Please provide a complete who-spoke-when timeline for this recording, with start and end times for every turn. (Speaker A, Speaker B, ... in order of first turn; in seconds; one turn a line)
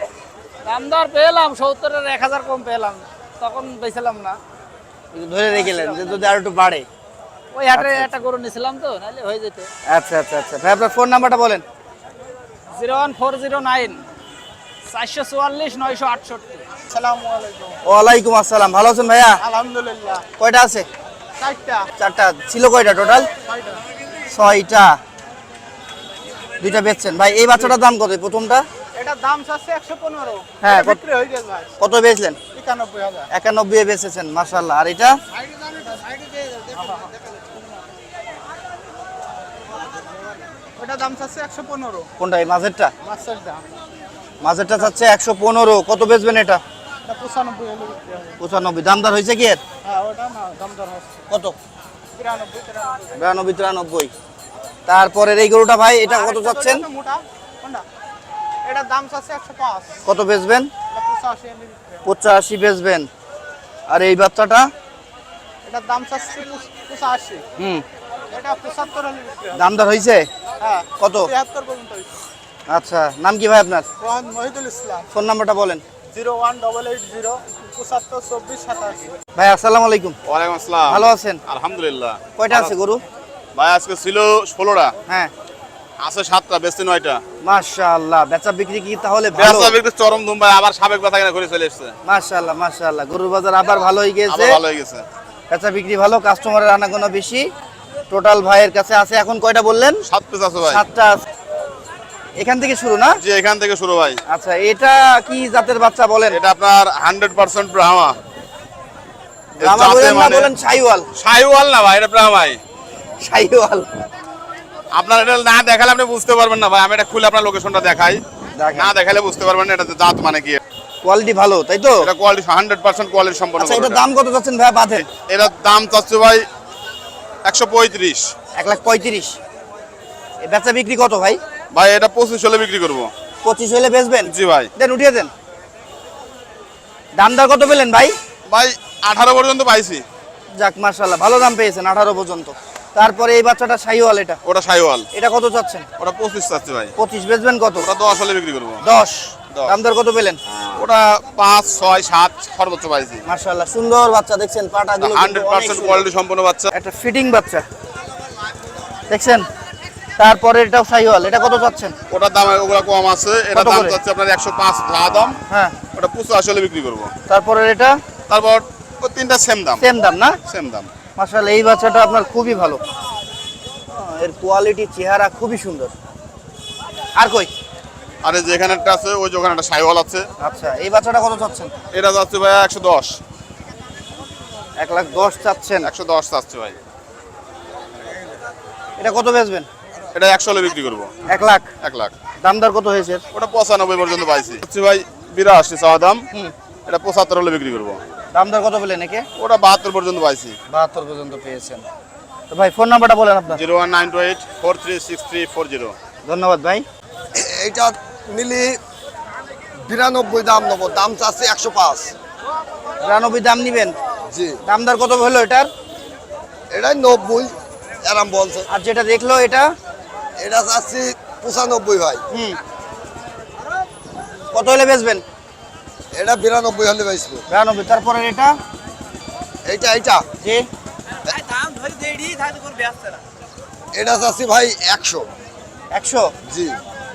Speaker A: 0.6-4.4
Speaker B: 5.1-6.8
Speaker A: 5.6-6.3
Speaker A: 7.5-9.7
Speaker B: 7.7-8.1
Speaker B: 9.9-11.6
Speaker A: 12.7-14.1
Speaker A: 14.8-16.6
Speaker C: 16.9-17.8
Speaker B: 17.8-19.4
Speaker C: 19.4-20.2
Speaker B: 20.4-20.9
Speaker C: 21.4-21.9
Speaker B: 22.0-23.3
Speaker C: 23.5-23.8
Speaker B: 24.3-25.0
Speaker B: 26.6-28.6
Speaker C: 28.9-31.7
Speaker B: 30.6-31.0
Speaker B: 31.8-32.4
Speaker C: 32.5-33.3
Speaker B: 33.3-35.1
Speaker C: 35.5-37.1
Speaker C: 40.8-42.1
Speaker B: 42.2-42.9
Speaker C: 43.0-43.6
Speaker B: 44.4-46.6
Speaker C: 47.1-48.4
Speaker B: 48.4-49.6
Speaker C: 49.8-51.2
Speaker B: 51.3-51.5
Speaker C: 52.2-53.1
Speaker B: 53.1-54.1
Speaker B: 54.9-56.8
Speaker C: 56.1-57.8
Speaker C: 58.6-60.0
Speaker B: 60.0-60.7
Speaker C: 60.9-62.0
Speaker B: 62.0-63.1
Speaker B: 63.9-64.7
Speaker C: 65.7-67.4
Speaker B: 67.6-67.8
Speaker C: 68.3-69.7
Speaker B: 69.5-70.3
Speaker C: 70.6-72.2
Speaker B: 71.0-71.3
Speaker B: 72.7-73.9
Speaker C: 74.0-75.0
Speaker B: 75.1-75.8
Speaker C: 76.1-79.1
Speaker B: 79.3-80.2
Speaker D: 80.3-82.7
Speaker B: 80.8-81.4
Speaker B: 82.3-83.0
Speaker D: 83.5-84.9
Speaker D: 86.0-87.2
Speaker B: 87.4-89.8
Speaker D: 89.4-91.9
Speaker B: 92.0-94.6
Speaker D: 94.3-95.0
Speaker B: 95.5-97.5
Speaker B: 98.1-100.0
Speaker D: 100.1-100.8
Speaker B: 100.7-101.2
Speaker B: 102.4-103.2
Speaker D: 103.2-104.2
Speaker B: 104.3-106.4
Speaker D: 106.3-108.2
Speaker B: 109.6-111.1
Speaker D: 109.6-110.5
Speaker D: 111.2-112.6
Speaker B: 113.2-113.8
Speaker D: 114.9-118.2
Speaker B: 118.5-118.9
Speaker D: 118.7-120.6
Speaker B: 121.0-122.1
Speaker D: 122.0-124.0
Speaker B: 123.6-125.1
Speaker D: 125.1-126.5
Speaker D: 127.4-128.3
Speaker B: 128.6-129.4
Speaker B: 130.4-131.4
Speaker D: 131.7-133.1
Speaker B: 133.4-135.3
Speaker D: 134.2-134.7
Speaker B: 137.1-138.1
Speaker D: 138.5-140.0
Speaker B: 140.5-144.4
Speaker D: 144.4-145.1
Speaker B: 145.1-145.8
Speaker D: 146.0-146.9
Speaker B: 147.0-147.9
Speaker D: 147.8-148.8
Speaker B: 148.8-150.4
Speaker D: 150.8-153.2
Speaker B: 153.2-156.1
Speaker D: 155.0-156.7
Speaker B: 156.7-157.6
Speaker B: 159.1-159.5
Speaker B: 160.2-161.9
Speaker D: 162.1-165.4
Speaker B: 163.5-164.0
Speaker B: 165.5-165.8
Speaker D: 165.9-167.1
Speaker B: 167.3-168.0
Speaker D: 168.3-169.8
Speaker B: 169.8-170.4
Speaker D: 170.5-170.9
Speaker B: 171.2-172.8
Speaker B: 173.9-175.9
Speaker B: 177.2-177.5
Speaker D: 178.2-180.3
Speaker B: 180.4-181.7
Speaker D: 181.9-183.2
Speaker B: 184.8-185.9
Speaker D: 185.8-186.8
Speaker B: 189.0-189.7
Speaker D: 190.1-191.1
Speaker B: 191.3-191.7
Speaker D: 191.8-192.1
Speaker B: 192.4-193.2
Speaker D: 193.3-196.2
Speaker D: 196.9-198.0
Speaker B: 198.3-199.2
Speaker D: 199.4-200.6
Speaker B: 200.7-201.8
Speaker B: 202.5-203.6
Speaker D: 203.6-205.9
Speaker B: 206.2-206.8
Speaker E: 207.4-208.8
Speaker E: 209.8-212.1
Speaker B: 213.0-213.9
Speaker B: 214.6-215.7
Speaker E: 216.7-218.7
Speaker B: 218.7-219.7
Speaker E: 220.4-222.2
Speaker B: 222.3-222.6
Speaker B: 224.5-225.2
Speaker E: 226.1-227.4
Speaker B: 227.5-228.6
Speaker E: 229.6-230.2
Speaker E: 233.9-235.3
Speaker B: 235.9-236.3
Speaker E: 236.5-236.8